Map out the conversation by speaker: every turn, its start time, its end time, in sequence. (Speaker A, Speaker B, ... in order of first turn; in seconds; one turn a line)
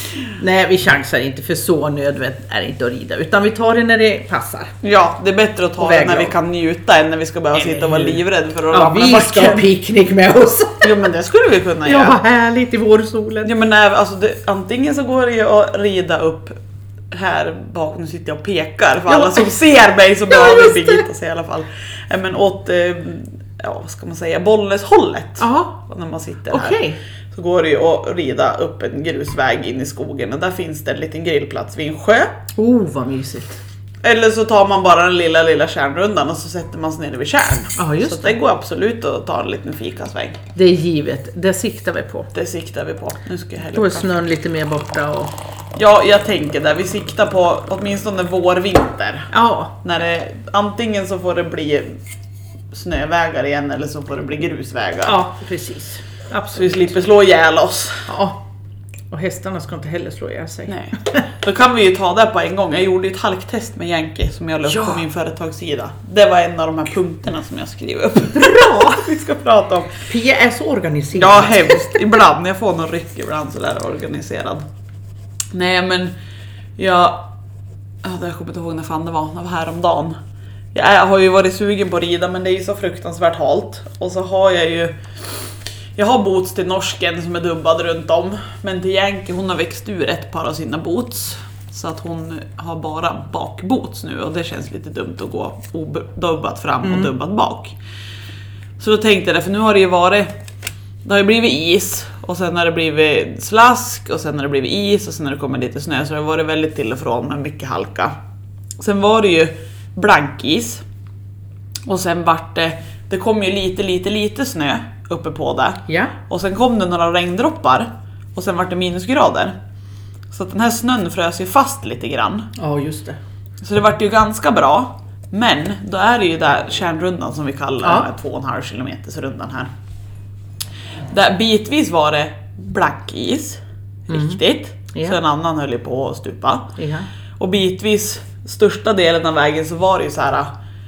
Speaker A: 0.3-4.7
Speaker B: 4.8-9.6
Speaker A: 5.8-6.3
Speaker A: 7.6-8.2
Speaker A: 8.7-10.9
Speaker B: 10.8-12.2
Speaker A: 11.8-13.5
Speaker B: 13.4-16.6
Speaker B: 17.1-26.8
Speaker A: 19.1-19.6
Speaker A: 20.3-21.0
Speaker A: 25.4-25.8
Speaker A: 26.5-27.0
Speaker B: 27.3-32.3
Speaker A: 32.6-33.6
Speaker B: 34.0-40.4
Speaker A: 37.8-38.4
Speaker A: 40.5-42.3
Speaker B: 42.3-44.1
Speaker A: 43.7-45.3
Speaker B: 45.7-49.3
Speaker A: 49.3-49.7
Speaker B: 49.8-51.9
Speaker B: 52.7-55.2
Speaker A: 55.0-56.9
Speaker B: 56.5-58.1
Speaker A: 58.1-58.4
Speaker A: 59.1-61.2
Speaker B: 60.7-70.0
Speaker A: 64.7-65.0
Speaker A: 68.3-69.0
Speaker A: 70.0-72.0
Speaker B: 71.1-74.6
Speaker B: 75.5-76.1
Speaker B: 76.8-77.3
Speaker B: 78.0-80.2
Speaker B: 80.7-85.0
Speaker B: 86.0-97.8
Speaker A: 96.8-97.1
Speaker B: 98.8-100.3
Speaker B: 101.0-108.1
Speaker B: 108.8-110.8
Speaker B: 111.8-119.5
Speaker A: 115.9-116.1
Speaker B: 120.3-122.5
Speaker A: 122.5-123.2
Speaker B: 123.6-129.7
Speaker B: 131.1-136.7
Speaker A: 134.1-134.4
Speaker A: 136.8-137.1
Speaker B: 137.4-140.5